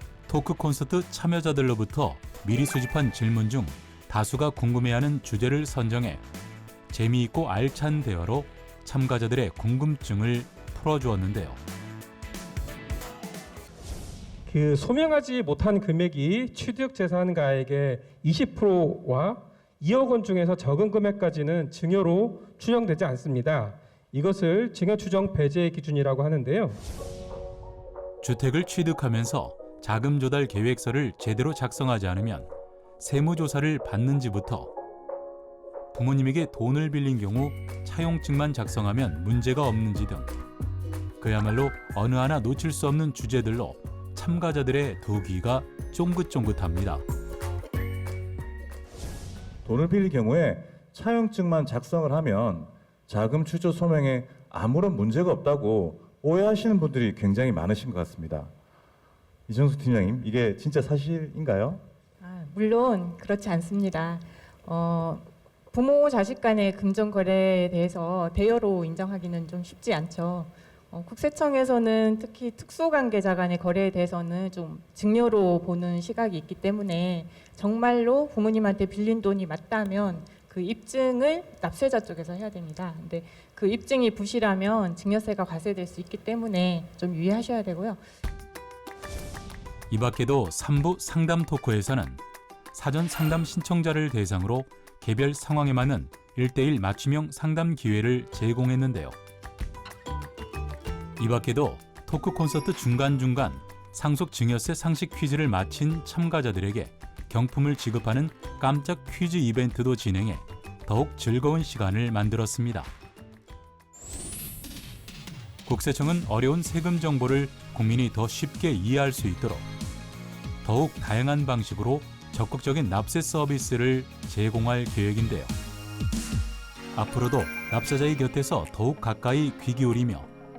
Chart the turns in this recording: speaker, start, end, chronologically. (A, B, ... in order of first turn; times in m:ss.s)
0:00.3-0:06.2 A
0:06.9-0:11.6 A
0:14.5-0:26.8 B
0:28.2-0:32.5 A
0:33.0-0:34.7 A
0:35.9-0:40.3 A
0:41.2-0:47.0 A
0:49.6-0:58.5 C
0:59.5-1:01.8 C
1:02.2-1:28.0 D
1:29.9-1:32.2 A
1:32.7-1:39.1 A
1:41.2-1:52.9 A
1:55.6-1:59.6 A
2:00.6-2:05.5 A
2:06.9-2:10.3 A